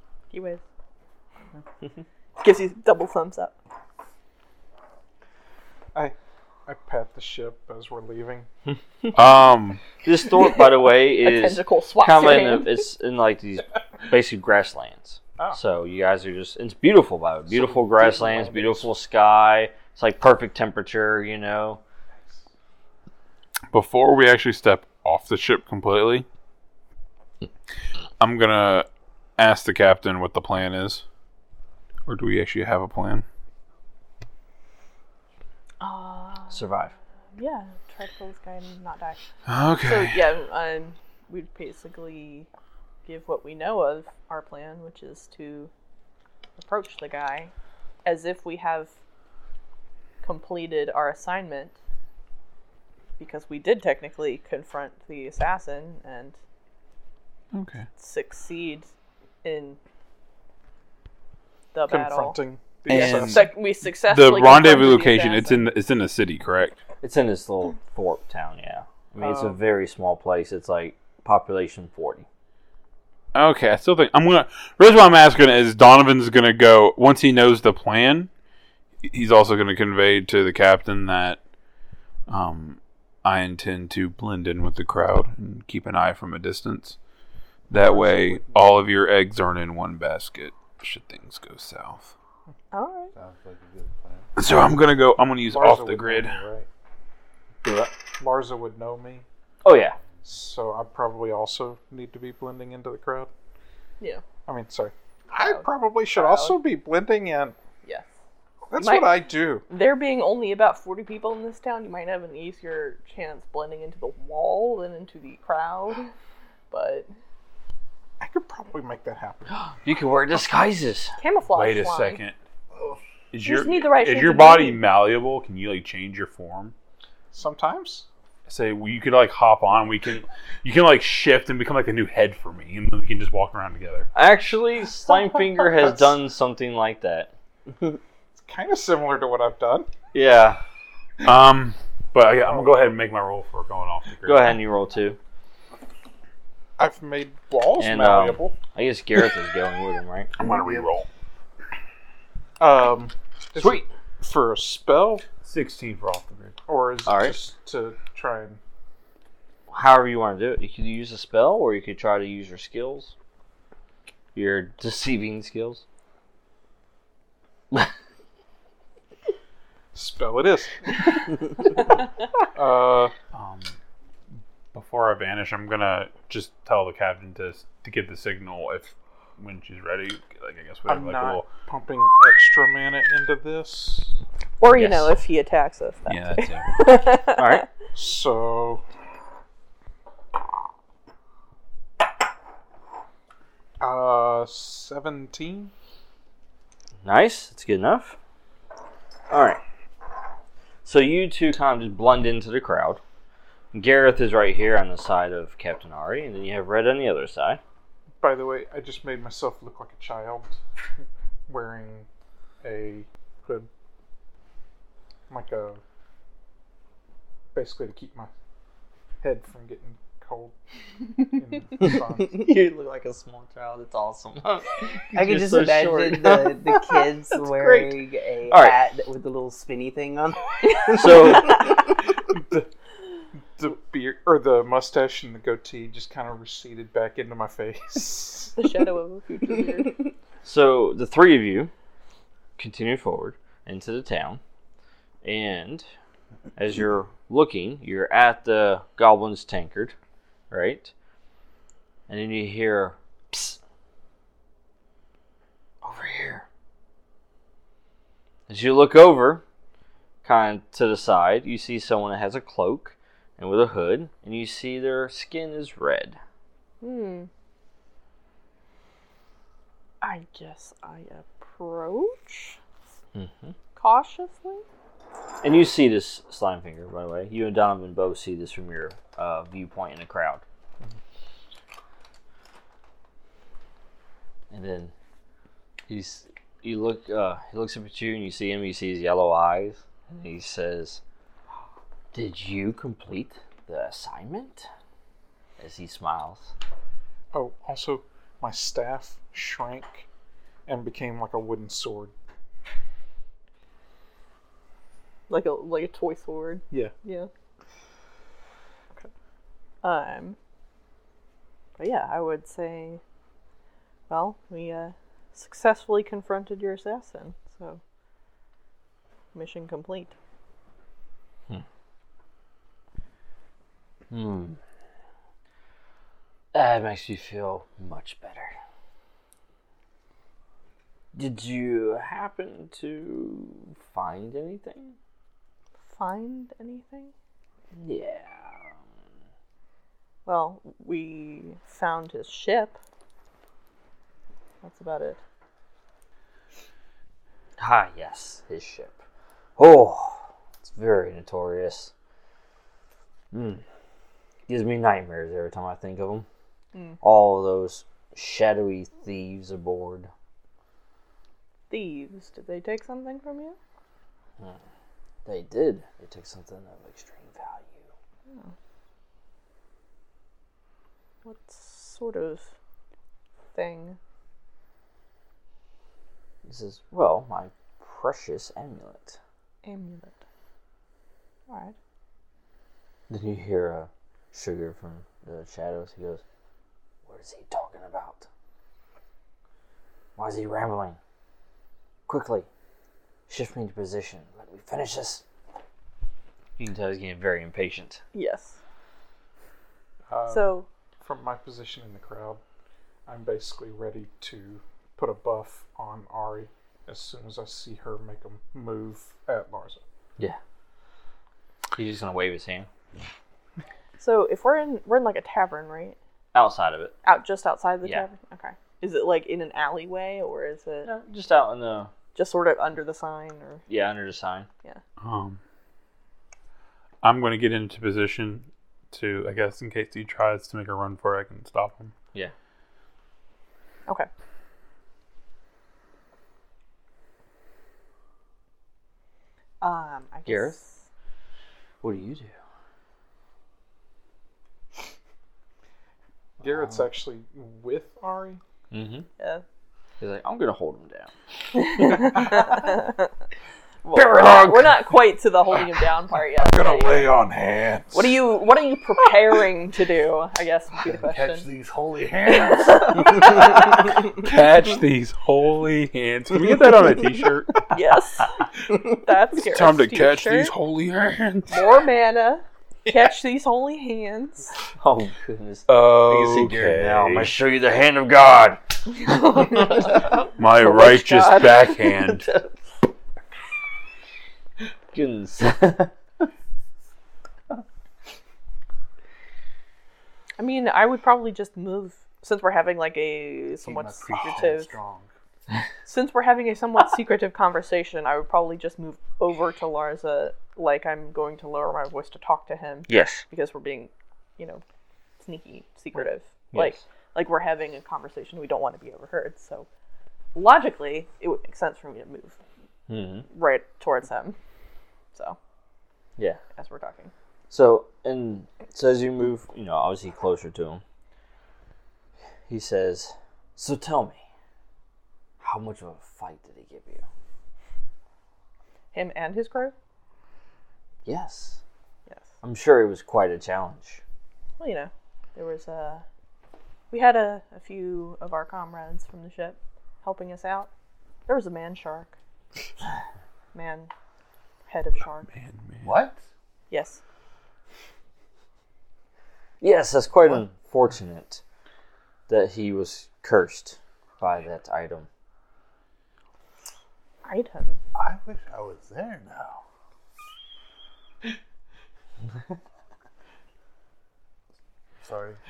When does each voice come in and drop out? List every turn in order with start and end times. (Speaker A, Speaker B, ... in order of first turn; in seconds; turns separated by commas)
Speaker A: 0.3-0.6, Speaker A: 2.4-3.5, Speaker B: 6.0-8.5, Speaker C: 9.1-9.8, Speaker D: 10.0-21.8, Speaker A: 11.2-12.8, Speaker B: 17.5-18.9, Speaker B: 22.2-22.4, Speaker C: 23.7-26.3, Speaker C: 28.2-28.9, Speaker C: 29.4-31.0, Speaker C: 32.1-33.2, Speaker A: 35.8-36.7, Speaker D: 36.5-36.9, Speaker A: 37.4-39.2, Speaker C: 39.5-40.2, Speaker A: 39.8-42.5, Speaker A: 43.1-45.7, Speaker A: 46.6-47.5, Speaker A: 48.0-48.9, Speaker A: 50.2-51.8, Speaker A: 53.2-56.4, Speaker C: 57.5-57.9, Speaker A: 58.0-58.9, Speaker A: 59.4-59.8, Speaker A: 61.7-62.4, Speaker B: 61.9-63.5, Speaker C: 62.9-63.5, Speaker A: 62.9-65.7, Speaker C: 64.1-66.8, Speaker D: 67.0-72.3, Speaker B: 69.2-69.6, Speaker C: 73.3-78.3, Speaker C: 79.0-81.4, Speaker C: 82.3-87.0, Speaker C: 87.7-92.1, Speaker B: 87.7-88.8, Speaker A: 92.7-93.1, Speaker E: 93.1-94.3, Speaker C: 94.4-96.4, Speaker B: 95.5-96.7, Speaker D: 97.6-97.9, Speaker B: 98.2-99.2, Speaker D: 99.6-100.0, Speaker B: 100.3-103.3, Speaker B: 104.5-107.6, Speaker A: 105.4-106.6, Speaker A: 107.8-108.1, Speaker B: 108.7-109.7, Speaker A: 108.8-116.1, Speaker A: 116.7-117.1, Speaker B: 118.2-119.5, Speaker D: 119.5-121.1, Speaker A: 121.2-122.2, Speaker C: 121.5-122.4, Speaker E: 122.7-123.0, Speaker C: 123.3-126.7, Speaker A: 123.5-124.8, Speaker B: 127.3-128.1, Speaker C: 128.5-134.1, Speaker D: 134.2-137.3, Speaker B: 135.8-136.0, Speaker B: 138.3-139.9, Speaker D: 140.1-140.6, Speaker C: 141.2-144.6, Speaker B: 142.4-142.9, Speaker D: 144.3-145.2, Speaker B: 146.8-148.6, Speaker D: 147.8-150.3, Speaker C: 150.4-151.1, Speaker E: 150.4-150.9, Speaker B: 152.6-155.3, Speaker D: 153.6-153.9, Speaker C: 155.4-156.6, Speaker B: 156.7-158.6, Speaker D: 157.1-157.4, Speaker D: 159.7-163.2, Speaker D: 164.3-165.8, Speaker B: 169.9-171.9, Speaker B: 172.5-173.1, Speaker C: 173.3-173.8, Speaker C: 174.7-181.5, Speaker B: 180.9-184.2, Speaker A: 184.6-187.6, Speaker D: 184.7-185.1, Speaker C: 186.1-187.1, Speaker D: 187.3-187.7, Speaker B: 187.9-188.8, Speaker B: 193.8-195.7, Speaker D: 197.1-198.2, Speaker D: 199.3-199.6, Speaker D: 200.8-203.0, Speaker D: 203.7-207.6, Speaker B: 208.2-210.6, Speaker B: 211.5-212.1, Speaker B: 212.6-213.7, Speaker B: 215.3-215.8, Speaker B: 217.5-218.3, Speaker B: 219.2-220.6, Speaker B: 221.2-222.4, Speaker D: 221.8-228.8, Speaker F: 225.1-231.7, Speaker D: 230.9-231.7, Speaker B: 232.3-232.7, Speaker B: 233.6-238.6, Speaker A: 238.6-240.1, Speaker D: 240.4-241.7, Speaker D: 242.6-244.4, Speaker D: 245.2-245.9, Speaker D: 246.6-249.9, Speaker D: 250.5-250.9, Speaker D: 252.1-253.6, Speaker D: 255.8-256.5, Speaker D: 258.5-259.4, Speaker D: 260.2-266.2, Speaker A: 266.8-267.3, Speaker A: 270.0-272.6, Speaker D: 273.1-273.6, Speaker A: 273.8-274.6, Speaker D: 275.4-280.4, Speaker D: 284.5-284.9, Speaker D: 285.9-291.0, Speaker D: 292.1-294.7, Speaker D: 295.6-296.5, Speaker B: 297.3-300.1, Speaker B: 300.7-302.1, Speaker A: 305.3-307.3, Speaker A: 309.8-310.4, Speaker A: 311.8-313.0, Speaker A: 314.1-317.8, Speaker A: 319.3-320.1, Speaker D: 324.1-324.6, Speaker D: 326.5-328.5, Speaker D: 331.1-335.0, Speaker A: 335.8-337.1, Speaker D: 337.8-338.7, Speaker A: 340.3-342.8, Speaker A: 344.6-345.2, Speaker D: 347.6-349.0, Speaker D: 349.6-351.9, Speaker D: 353.3-353.6, Speaker D: 354.5-356.3, Speaker A: 356.7-357.0, Speaker D: 357.0-360.1, Speaker A: 361.7-363.6, Speaker D: 365.3-367.9, Speaker A: 368.3-368.5, Speaker A: 371.2-372.5, Speaker A: 373.5-374.0, Speaker D: 376.4-379.2, Speaker A: 379.6-380.2, Speaker A: 381.5-381.8, Speaker D: 383.1-386.2, Speaker D: 387.1-388.3, Speaker D: 390.2-391.0, Speaker D: 392.1-392.5, Speaker D: 393.3-395.2, Speaker D: 396.6-398.0, Speaker A: 398.1-398.6, Speaker B: 400.1-402.4, Speaker A: 400.3-400.7, Speaker B: 403.1-409.8, Speaker D: 411.8-412.7, Speaker A: 414.0-416.0, Speaker D: 416.3-416.9, Speaker A: 417.0-420.9, Speaker D: 420.9-421.9, Speaker A: 422.1-423.6, Speaker D: 423.7-424.5, Speaker C: 425.0-425.4, Speaker C: 427.0-431.9, Speaker A: 439.6-440.8, Speaker D: 440.3-440.6, Speaker D: 441.8-442.4, Speaker E: 446.4-446.9, Speaker B: 446.4-448.4, Speaker D: 448.7-449.1, Speaker D: 450.0-451.1, Speaker A: 451.6-453.1, Speaker D: 451.8-452.4, Speaker A: 453.8-457.1, Speaker D: 453.9-454.9, Speaker B: 456.4-458.2, Speaker A: 457.9-461.5, Speaker E: 460.8-463.1, Speaker A: 462.3-463.9, Speaker C: 464.1-467.7, Speaker A: 467.7-470.6, Speaker C: 469.4-471.8, Speaker A: 471.5-474.5, Speaker D: 474.8-480.3, Speaker C: 475.7-477.4, Speaker A: 479.2-480.0, Speaker C: 480.4-482.3, Speaker A: 480.6-481.8, Speaker D: 481.8-482.5, Speaker D: 484.9-485.9, Speaker A: 490.4-494.7, Speaker E: 493.6-495.1, Speaker A: 495.9-504.6, Speaker D: 502.9-503.2, Speaker A: 505.2-509.7, Speaker D: 506.5-506.8, Speaker A: 510.4-512.4, Speaker D: 512.9-513.3, Speaker A: 513.3-514.4, Speaker A: 516.6-517.1, Speaker D: 517.5-520.8, Speaker D: 522.5-524.2, Speaker D: 525.4-527.0, Speaker A: 528.9-529.7, Speaker D: 531.0-531.6, Speaker D: 532.4-534.0, Speaker A: 534.6-536.0, Speaker A: 536.9-540.7, Speaker A: 541.3-542.1, Speaker A: 543.5-543.9, Speaker A: 544.7-545.3, Speaker C: 545.3-545.9, Speaker E: 545.8-546.2, Speaker A: 546.7-547.0, Speaker D: 549.6-551.4, Speaker D: 552.3-555.1, Speaker A: 557.2-557.8, Speaker E: 557.9-559.6, Speaker E: 565.0-565.4